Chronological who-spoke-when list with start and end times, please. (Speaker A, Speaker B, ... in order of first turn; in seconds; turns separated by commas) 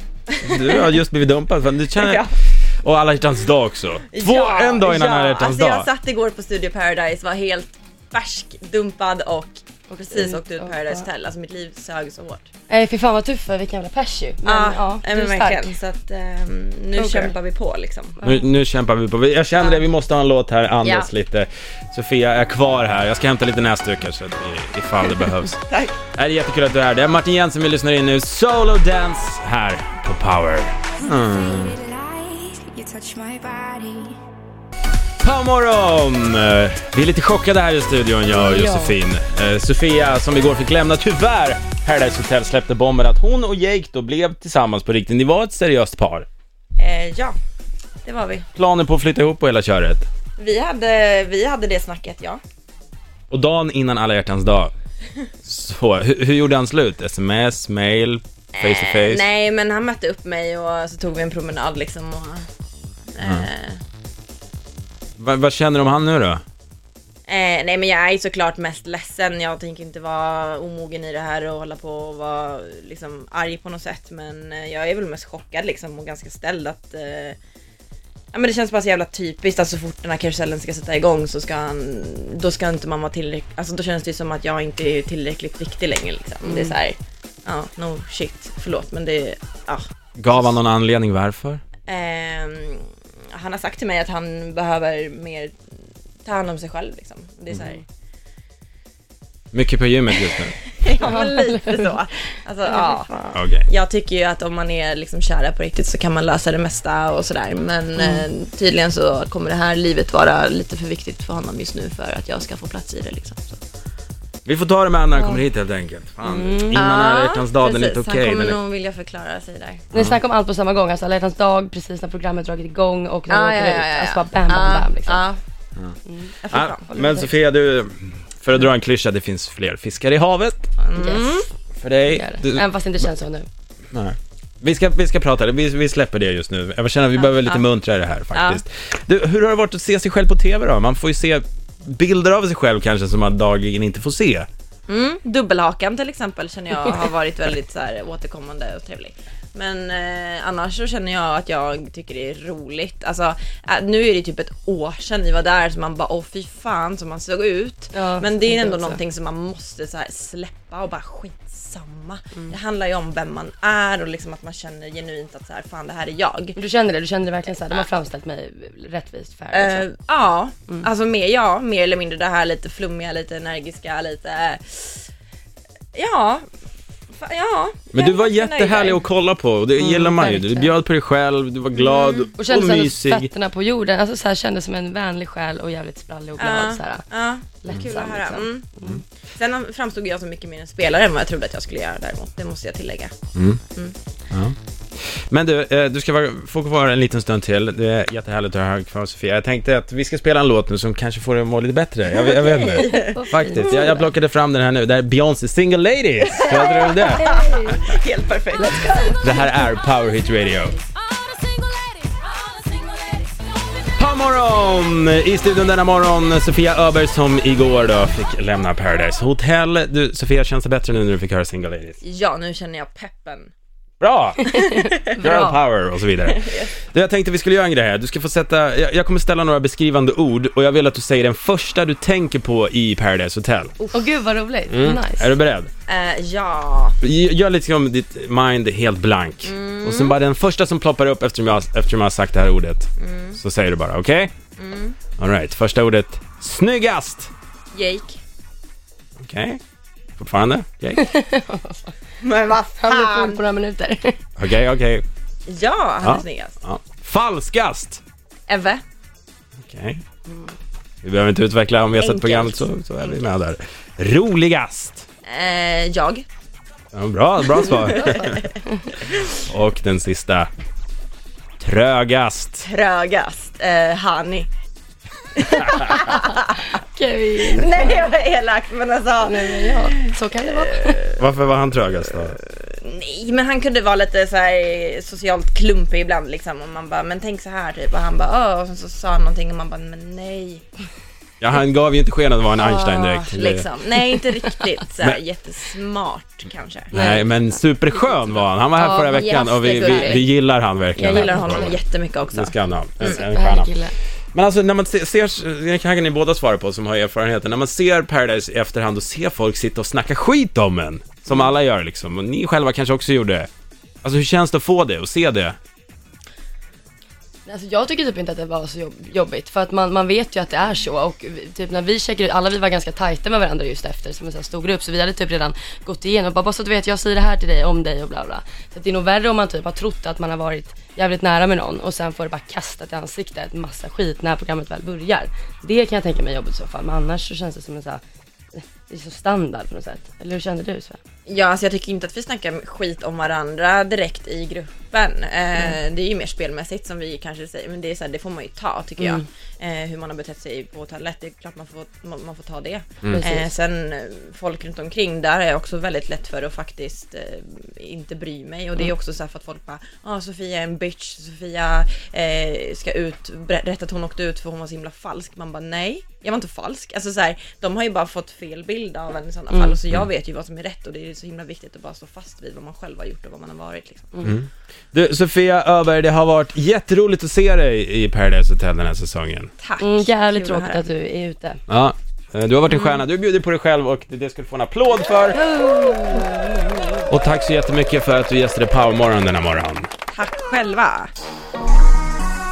Speaker A: 0.3-1.0, Speaker B: 0.4-5.9, Speaker A: 1.9-2.4, Speaker A: 4.1-12.5, Speaker C: 9.9-11.1, Speaker C: 12.7-15.8, Speaker A: 14.4-18.2, Speaker C: 16.9-17.3, Speaker B: 18.2-25.6, Speaker A: 19.6-19.9, Speaker A: 20.8-21.1, Speaker A: 25.6-26.0, Speaker B: 26.1-31.8, Speaker D: 31.5-34.2, Speaker B: 35.2-46.3, Speaker C: 38.4-39.0, Speaker A: 46.8-47.4, Speaker A: 48.0-48.5, Speaker B: 48.5-50.1, Speaker A: 50.4-52.4, Speaker B: 53.3-54.7, Speaker B: 55.4-59.2, Speaker A: 58.5-62.5, Speaker A: 63.1-63.8, Speaker B: 65.2-66.4, Speaker A: 67.3-77.3, Speaker A: 78.3-90.5, Speaker C: 86.4-86.7, Speaker B: 90.2-91.6, Speaker A: 91.9-95.5, Speaker A: 96.2-97.8, Speaker B: 99.5-100.5, Speaker A: 100.1-113.6, Speaker C: 101.0-101.9, Speaker B: 103.3-103.6, Speaker C: 108.0-108.3, Speaker B: 114.4-118.6, Speaker C: 115.1-115.4, Speaker C: 116.2-116.8, Speaker A: 116.7-119.9, Speaker C: 119.9-125.2, Speaker A: 123.3-125.4, Speaker C: 126.0-127.3, Speaker A: 126.4-127.1, Speaker B: 126.5-130.7, Speaker A: 130.8-131.5, Speaker C: 130.9-131.3, Speaker B: 131.8-132.6, Speaker C: 132.1-133.5, Speaker B: 133.9-144.5, Speaker A: 137.2-137.6, Speaker A: 138.3-138.6, Speaker A: 144.9-166.6, Speaker C: 157.9-159.0, Speaker C: 166.6-169.9, Speaker A: 167.6-167.9, Speaker A: 169.5-175.0, Speaker A: 175.9-176.4, Speaker A: 177.2-179.0, Speaker B: 177.9-183.3, Speaker C: 179.8-180.7, Speaker A: 181.7-182.3, Speaker C: 182.4-187.1, Speaker A: 186.4-193.1, Speaker C: 187.6-189.0, Speaker B: 193.3-193.6, Speaker B: 194.3-194.6, Speaker B: 195.1-207.3, Speaker A: 202.1-203.7, Speaker C: 202.8-204.1, Speaker A: 206.3-209.2, Speaker C: 206.4-207.9, Speaker C: 208.6-209.5, Speaker B: 209.2-210.8, Speaker D: 212.7-213.2, Speaker B: 213.9-222.0, Speaker A: 222.0-223.5, Speaker B: 224.0-224.6, Speaker A: 224.5-225.1, Speaker C: 225.0-225.6, Speaker B: 225.1-233.8, Speaker A: 226.2-226.7, Speaker A: 233.8-234.1, Speaker C: 233.9-235.3, Speaker B: 234.7-235.7, Speaker A: 235.9-237.0, Speaker B: 237.0-244.3, Speaker A: 239.4-240.2, Speaker A: 243.0-243.4, Speaker A: 244.6-245.0, Speaker B: 245.2-247.3, Speaker A: 247.7-248.2, Speaker B: 249.2-249.6, Speaker B: 250.2-251.1, Speaker C: 250.9-251.9, Speaker A: 252.2-253.4, Speaker C: 252.8-254.2, Speaker B: 254.4-255.0, Speaker A: 255.5-256.6, Speaker B: 256.0-258.0, Speaker A: 258.5-258.8, Speaker B: 259.6-260.0, Speaker C: 260.3-260.5, Speaker B: 261.0-265.1, Speaker A: 261.9-262.7, Speaker A: 265.2-266.2, Speaker B: 266.9-268.4, Speaker A: 267.4-269.4, Speaker C: 267.9-268.2, Speaker B: 269.3-270.5, Speaker B: 271.6-272.7, Speaker A: 272.6-274.5, Speaker A: 275.3-276.7, Speaker C: 276.0-278.1, Speaker A: 277.4-281.3, Speaker C: 279.2-281.0, Speaker B: 281.2-282.4, Speaker A: 281.9-290.6, Speaker B: 291.4-293.6, Speaker A: 292.5-296.9, Speaker C: 296.9-297.5, Speaker B: 296.9-301.8, Speaker C: 298.7-300.2, Speaker A: 299.1-300.3, Speaker A: 300.9-303.2, Speaker C: 301.0-301.8, Speaker B: 302.3-303.8, Speaker C: 303.0-303.9, Speaker B: 304.3-313.5, Speaker B: 314.0-315.6, Speaker C: 317.4-338.0, Speaker C: 338.5-341.0, Speaker A: 341.3-374.2, Speaker C: 349.0-349.2, Speaker B: 353.0-353.3, Speaker C: 353.1-353.5, Speaker C: 369.5-369.8, Speaker B: 374.2-379.5, Speaker A: 379.6-380.8, Speaker C: 379.8-381.6, Speaker B: 381.7-385.4, Speaker C: 385.3-386.8, Speaker B: 387.1-389.9, Speaker A: 390.1-391.1